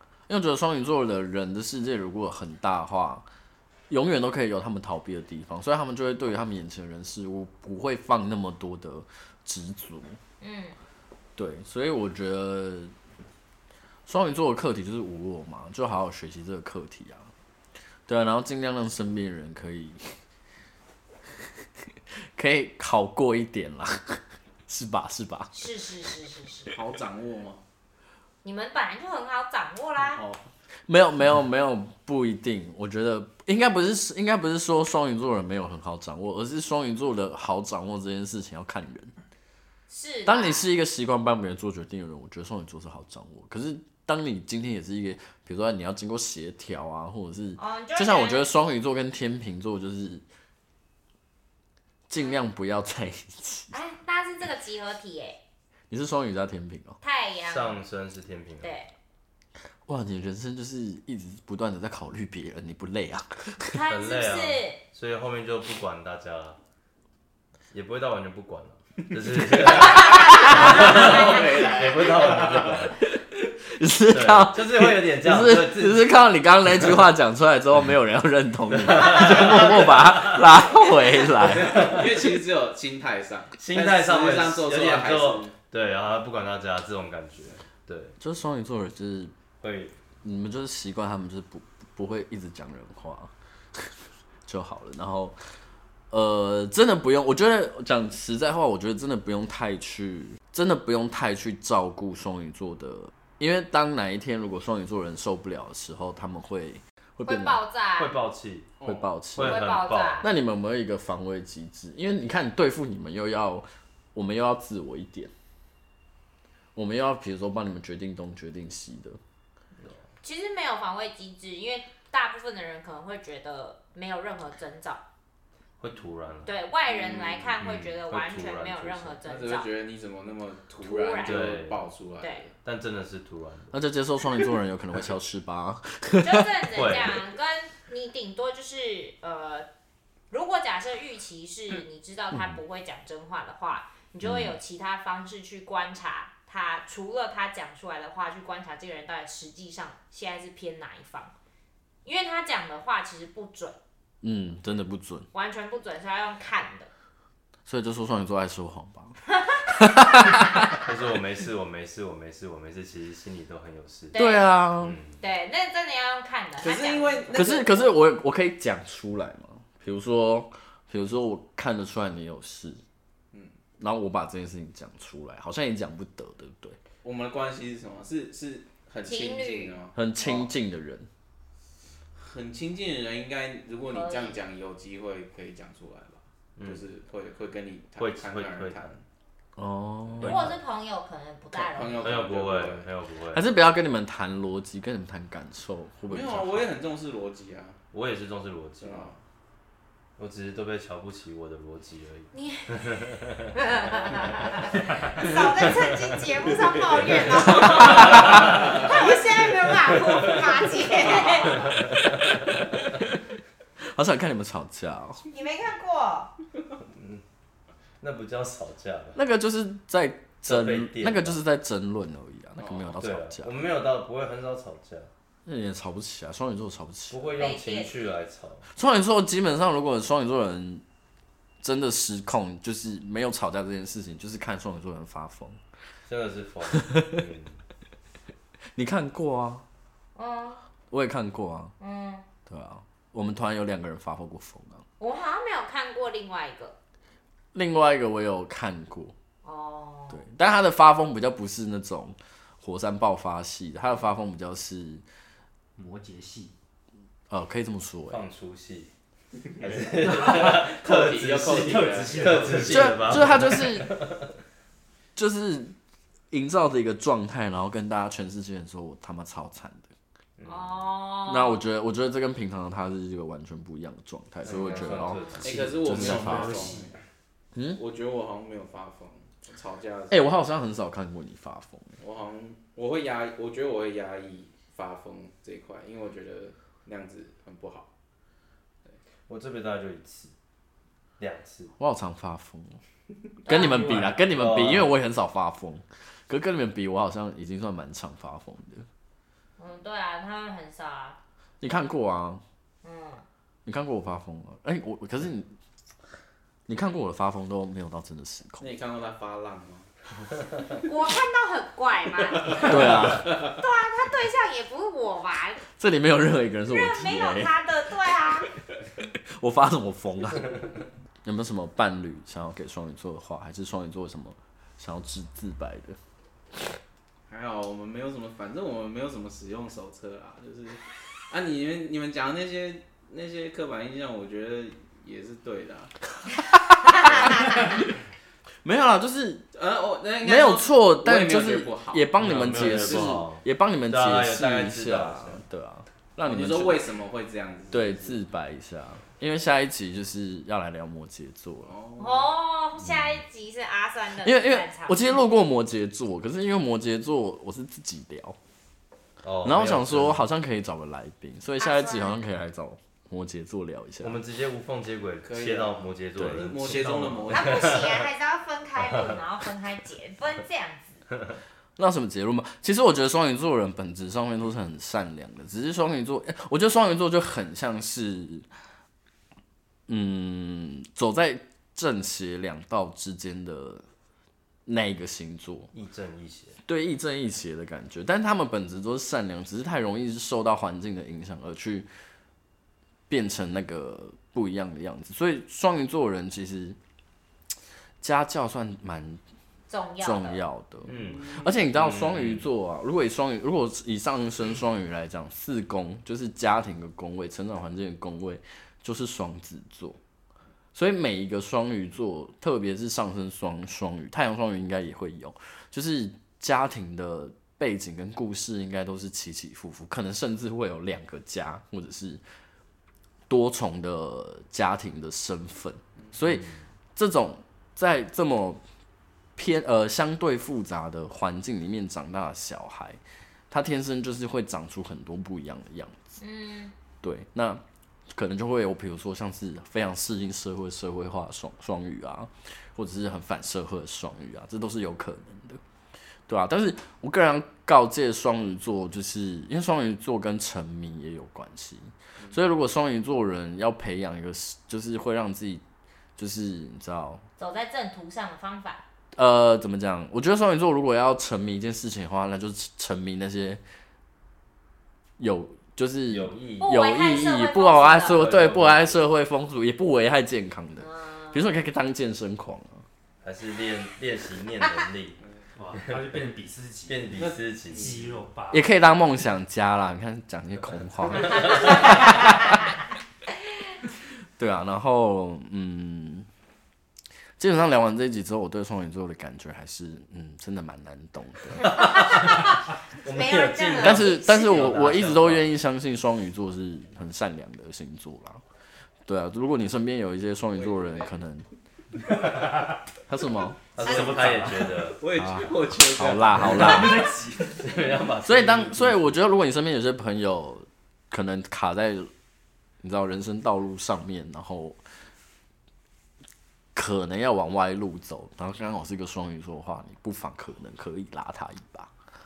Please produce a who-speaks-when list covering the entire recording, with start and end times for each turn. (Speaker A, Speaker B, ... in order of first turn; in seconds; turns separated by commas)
Speaker A: 0.3-3.2, Speaker A: 3.9-10.2, Speaker B: 10.4-10.8, Speaker A: 11.4-12.9, Speaker A: 14.1-17.3, Speaker A: 18.1-20.1, Speaker A: 22.2-25.6, Speaker B: 25.5-26.7, Speaker C: 26.7-27.6, Speaker B: 28.4-30.2, Speaker C: 30.0-30.4, Speaker A: 30.9-39.1, Speaker B: 39.9-40.6, Speaker A: 40.2-50.2, Speaker B: 47.6-48.5, Speaker A: 52.1-53.7, Speaker B: 53.7-55.4, Speaker A: 55.9-57.0, Speaker B: 57.0-57.8, Speaker D: 57.5-58.8, Speaker B: 58.6-58.9, Speaker A: 59.9-63.8, Speaker B: 63.7-64.8, Speaker D: 63.9-66.6, Speaker D: 67.7-73.0, Speaker C: 69.6-72.9, Speaker B: 70.0-71.2, Speaker A: 73.0-82.1, Speaker D: 74.1-76.1, Speaker D: 78.7-80.4, Speaker D: 81.4-82.2, Speaker C: 81.5-85.5, Speaker D: 83.6-88.2, Speaker A: 88.2-89.3, Speaker D: 89.6-89.9, Speaker A: 90.2-93.9, Speaker A: 94.4-95.4, Speaker A: 96.1-107.6, Speaker B: 107.2-108.2, Speaker D: 108.0-108.7, Speaker C: 108.8-109.1, Speaker A: 108.8-109.6, Speaker D: 109.3-110.3, Speaker B: 109.4-110.3, Speaker A: 110.2-115.3, Speaker A: 116.7-119.2, Speaker B: 120.2-125.0, Speaker D: 125.8-126.5, Speaker B: 126.5-129.7, Speaker C: 126.9-127.6, Speaker D: 127.6-129.2, Speaker C: 129.2-132.6, Speaker B: 130.8-131.5, Speaker D: 131.2-131.8, Speaker D: 132.6-133.7, Speaker A: 133.7-136.6, Speaker B: 136.2-139.7, Speaker D: 136.7-137.2, Speaker B: 140.3-151.3, Speaker A: 144.2-144.6, Speaker B: 152.0-153.8, Speaker A: 154.2-155.3, Speaker B: 155.3-156.9, Speaker A: 157.7-160.8, Speaker B: 159.4-160.7, Speaker D: 160.7-164.2, Speaker B: 164.1-164.5, Speaker A: 164.1-165.0, Speaker D: 164.8-165.2, Speaker B: 165.2-167.4, Speaker C: 166.6-167.8, Speaker A: 167.3-172.8, Speaker A: 173.8-176.8, Speaker C: 177.0-180.5, Speaker B: 179.0-179.7, Speaker A: 179.9-181.1, Speaker C: 182.1-189.0, Speaker B: 183.9-184.4, Speaker D: 186.6-186.8, Speaker D: 188.0-188.9, Speaker A: 189.6-190.6, Speaker C: 190.1-190.4, Speaker B: 190.2-192.1, Speaker C: 191.5-192.9, Speaker D: 192.0-193.5, Speaker A: 193.3-196.7, Speaker C: 196.1-197.8, Speaker D: 197.9-199.1, Speaker C: 198.8-199.2, Speaker D: 200.2-206.2, Speaker B: 202.3-202.9, Speaker B: 203.5-211.7, Speaker D: 207.2-208.8, Speaker A: 207.9-208.2, Speaker C: 208.0-208.8, Speaker D: 211.2-212.6, Speaker A: 212.7-213.1, Speaker A: 213.8-215.2, Speaker B: 215.3-216.3, Speaker D: 216.8-217.2, Speaker D: 218.0-219.2, Speaker A: 219.1-223.6, Speaker D: 220.4-221.4, Speaker C: 222.6-223.0, Speaker D: 223.0-225.1, Speaker A: 225.4-227.4, Speaker D: 227.1-228.7, Speaker B: 227.4-227.9, Speaker A: 228.7-230.8, Speaker A: 231.6-235.6, Speaker D: 236.1-237.6, Speaker A: 236.8-237.2, Speaker A: 238.7-239.6, Speaker B: 240.2-240.6, Speaker A: 240.9-241.7, Speaker B: 241.8-242.3, Speaker A: 242.5-244.8, Speaker B: 245.0-246.8, Speaker A: 247.5-249.1, Speaker B: 249.4-250.2, Speaker A: 250.1-255.0, Speaker E: 255.8-256.5, Speaker A: 257.3-258.2, Speaker D: 258.1-258.9, Speaker D: 259.6-264.3, Speaker E: 259.9-260.6, Speaker C: 260.1-262.8, Speaker E: 261.5-263.4, Speaker A: 262.6-263.9, Speaker A: 265.1-265.8, Speaker A: 266.3-269.9, Speaker D: 270.4-270.8, Speaker B: 270.4-271.6, Speaker A: 271.2-276.7, Speaker D: 274.4-276.8, Speaker C: 274.4-277.0, Speaker E: 275.9-276.9, Speaker A: 277.5-277.8, Speaker C: 277.7-280.3, Speaker A: 280.1-282.0, Speaker C: 282.0-287.9, Speaker D: 289.3-290.3, Speaker D: 291.2-291.7, Speaker A: 291.8-292.8, Speaker B: 293.4-293.9, Speaker A: 293.4-298.9, Speaker E: 293.5-294.3, Speaker D: 294.2-294.9, Speaker B: 299.6-301.2, Speaker A: 301.6-302.4, Speaker B: 302.8-303.2, Speaker A: 303.6-305.5, Speaker A: 306.7-308.7, Speaker C: 308.6-309.9, Speaker B: 310.8-315.6, Speaker C: 312.4-313.5, Speaker A: 312.5-313.4, Speaker A: 315.8-317.5, Speaker B: 316.6-318.5, Speaker A: 319.1-320.7, Speaker A: 321.2-326.0, Speaker C: 327.3-335.9, Speaker A: 336.2-337.9, Speaker C: 337.1-337.5, Speaker A: 338.6-339.4, Speaker C: 339.5-343.2, Speaker A: 340.2-346.9, Speaker D: 342.2-345.4, Speaker C: 346.2-348.2, Speaker A: 347.7-351.7, Speaker C: 351.6-352.3, Speaker B: 352.0-355.2, Speaker A: 354.2-358.4, Speaker D: 359.2-360.2, Speaker A: 359.4-364.2, Speaker B: 361.6-362.1, Speaker D: 364.0-368.0, Speaker C: 365.2-367.9, Speaker A: 366.1-366.5, Speaker B: 367.3-371.0, Speaker D: 368.9-369.2, Speaker A: 371.8-378.5, Speaker A: 379.9-383.8, Speaker A: 384.6-385.7, Speaker D: 385.7-386.6, Speaker A: 386.6-391.9, Speaker A: 393.1-396.8, Speaker A: 398.0-399.2, Speaker B: 399.7-400.4, Speaker A: 400.0-410.0, Speaker D: 400.9-402.4, Speaker C: 401.1-401.5, Speaker A: 410.7-422.2, Speaker A: 423.3-428.6, Speaker D: 426.2-426.6, Speaker A: 429.4-436.0, Speaker B: 436.2-436.7, Speaker A: 437.0-445.6, Speaker A: 446.3-455.6, Speaker C: 452.2-452.4, Speaker A: 456.2-457.2, Speaker B: 457.4-458.8, Speaker A: 459.1-463.6, Speaker A: 465.2-472.8, Speaker D: 466.1-466.7, Speaker B: 466.6-468.2, Speaker D: 468.0-469.1, Speaker B: 470.8-471.4, Speaker D: 473.2-475.2, Speaker E: 475.6-478.7, Speaker D: 475.8-476.1, Speaker D: 476.9-478.1, Speaker C: 477.2-478.1, Speaker A: 478.5-482.7, Speaker D: 481.4-481.7, Speaker A: 484.4-486.3, Speaker A: 487.4-491.8, Speaker B: 491.6-494.8, Speaker D: 491.6-492.5, Speaker D: 493.0-495.5, Speaker A: 493.8-498.4, Speaker A: 499.1-501.4, Speaker C: 500.5-501.1, Speaker D: 502.0-502.4, Speaker E: 502.4-502.8, Speaker A: 503.1-503.7, Speaker D: 503.7-505.0, Speaker E: 503.8-504.8, Speaker C: 504.8-507.1, Speaker A: 505.1-507.1, Speaker E: 506.3-507.8, Speaker D: 507.5-509.1, Speaker A: 508.2-512.1, Speaker A: 512.8-514.8, Speaker A: 516.7-521.9